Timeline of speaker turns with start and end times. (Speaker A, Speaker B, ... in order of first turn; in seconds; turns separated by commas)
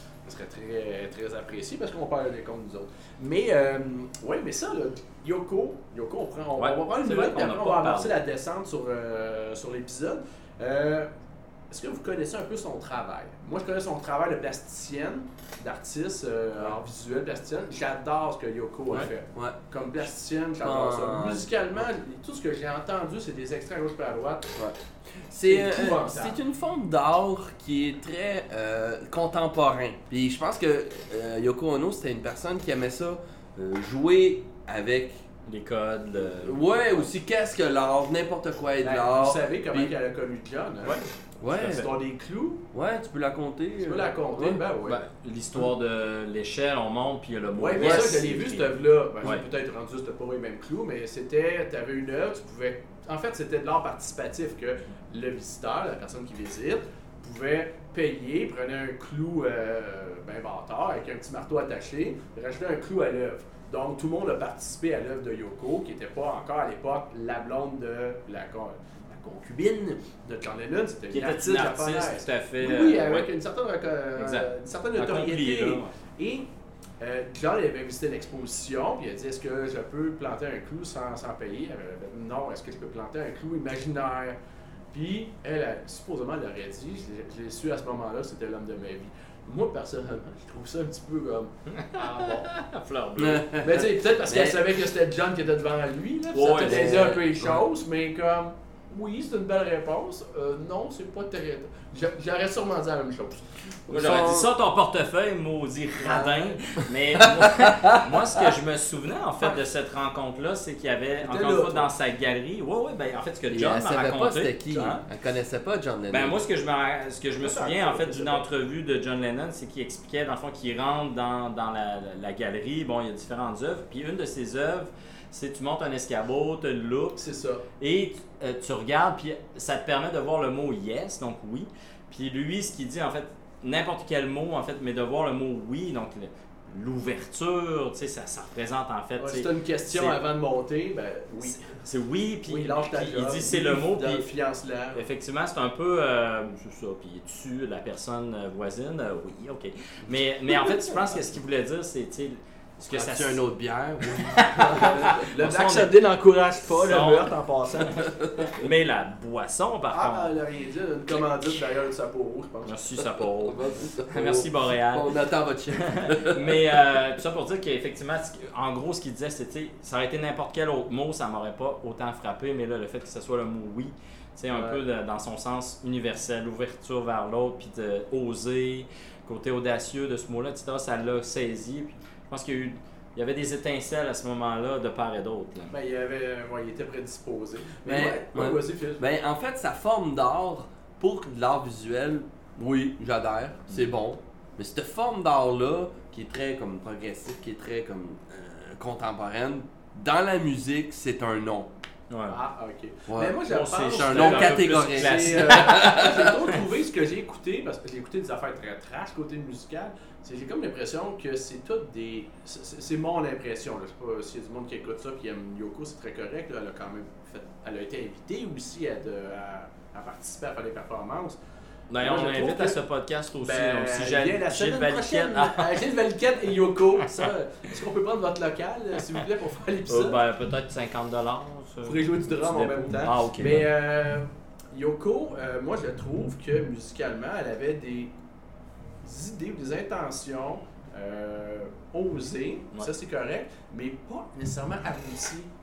Speaker A: 0.2-11.1, Speaker B: 6.6-8.2, Speaker A: 11.7-24.5, Speaker C: 19.3-19.6, Speaker C: 20.6-21.5, Speaker C: 25.3-35.2, Speaker A: 25.4-26.4, Speaker B: 35.5-37.1, Speaker C: 36.2-39.9, Speaker A: 38.8-41.0, Speaker C: 41.4-41.9, Speaker A: 41.6-42.6, Speaker C: 42.7-44.6, Speaker A: 43.8-45.0, Speaker B: 44.9-48.7, Speaker A: 47.5-76.5, Speaker C: 47.8-48.2, Speaker B: 71.1-73.3, Speaker B: 74.2-75.9, Speaker A: 77.0-84.4, Speaker A: 84.9-92.5, Speaker B: 91.8-93.5, Speaker C: 93.2-94.7, Speaker A: 93.6-103.5, Speaker B: 96.3-97.2, Speaker C: 96.6-97.5, Speaker C: 103.9-104.5, Speaker B: 103.9-115.0, Speaker C: 106.0-108.5, Speaker A: 111.2-111.9, Speaker C: 113.5-116.4, Speaker B: 116.1-127.2, Speaker A: 117.4-118.5, Speaker A: 127.2-127.6, Speaker B: 127.8-140.2, Speaker A: 139.2-141.7, Speaker B: 141.4-144.3, Speaker A: 142.5-145.1, Speaker B: 144.9-153.4, Speaker C: 152.9-155.2, Speaker B: 154.1-156.0, Speaker A: 154.8-158.0, Speaker B: 156.8-160.3, Speaker C: 158.1-158.5, Speaker A: 159.9-162.8, Speaker B: 162.7-165.1, Speaker C: 163.0-166.8, Speaker B: 165.7-185.7, Speaker C: 174.5-174.8, Speaker A: 185.7-189.1, Speaker C: 187.8-201.7, Speaker B: 202.1-202.4, Speaker A: 202.3-221.4, Speaker C: 203.1-206.3, Speaker B: 203.5-206.4, Speaker B: 221.9-225.9, Speaker A: 222.0-222.8, Speaker A: 223.4-230.2, Speaker B: 229.9-233.7, Speaker A: 231.8-238.1, Speaker A: 239.0-245.5